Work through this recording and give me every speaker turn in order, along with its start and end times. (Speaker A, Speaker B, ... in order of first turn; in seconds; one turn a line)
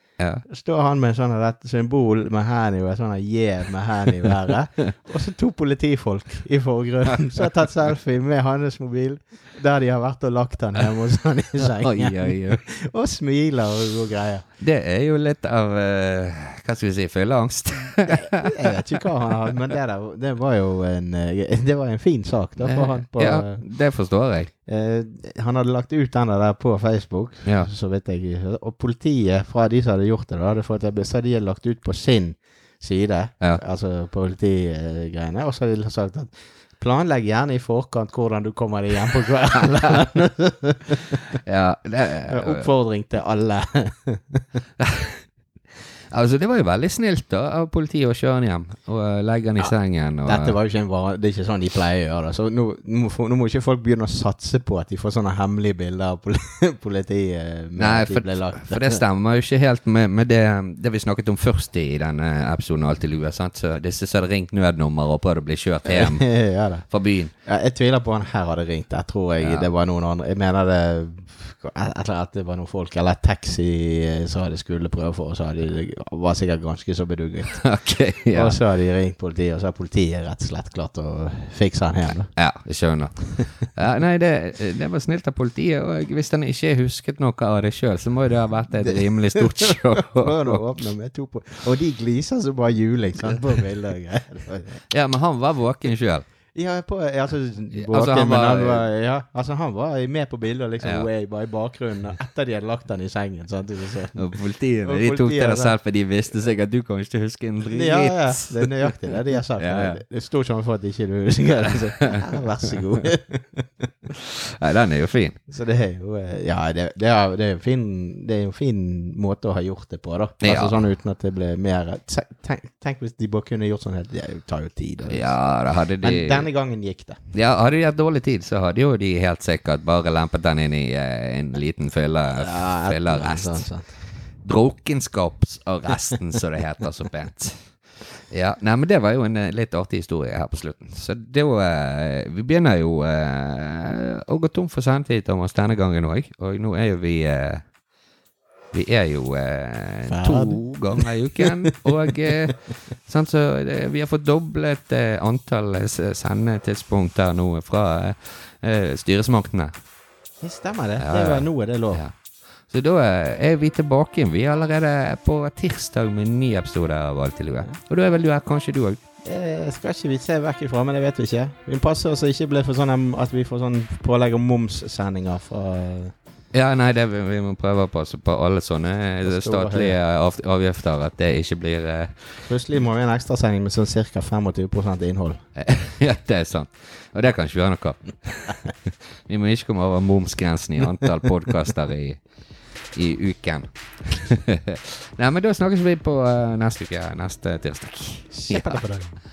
Speaker A: 0.2-0.4
Speaker B: 0.5-14.4
Speaker A: 11.6-12.6
Speaker A: 14.6-19.0
Speaker B: 18.0-23.6
Speaker A: 22.6-24.5
Speaker B: 24.7-41.4
Speaker A: 41.4-42.7
Speaker B: 42.3-44.4
Speaker A: 44.8-45.2
Speaker A: 46.1-50.5
Speaker B: 50.2-59.0
Speaker A: 57.8-66.3
Speaker B: 65.8-66.8
Speaker A: 66.9-67.3
Speaker B: 67.5-77.7
Speaker A: 69.4-69.7
Speaker A: 77.5-78.6
Speaker B: 78.3-82.3
Speaker A: 82.3-90.6
Speaker B: 88.8-94.8
Speaker A: 94.9-96.2
Speaker B: 96.5-104.3
Speaker A: 97.7-98.8
Speaker A: 100.8-101.1
Speaker A: 104.1-108.8
Speaker B: 104.8-105.8
Speaker B: 107.7-113.9
Speaker A: 109.6-110.0
Speaker A: 112.0-112.2
Speaker A: 114.1-115.4
Speaker B: 115.5-125.3
Speaker A: 120.4-120.8
Speaker A: 125.1-126.5
Speaker B: 126.0-127.2
Speaker A: 127.3-133.7
Speaker B: 132.3-133.9
Speaker A: 134.4-137.6
Speaker A: 138.3-147.6
Speaker A: 148.7-159.7
Speaker B: 150.1-151.5
Speaker B: 160.4-162.0
Speaker A: 161.0-162.1
Speaker A: 162.7-169.0
Speaker B: 169.2-176.1
Speaker A: 176.5-182.4
Speaker B: 179.2-179.9
Speaker B: 182.4-185.4
Speaker A: 185.6-192.2
Speaker A: 192.9-198.8
Speaker B: 198.3-199.2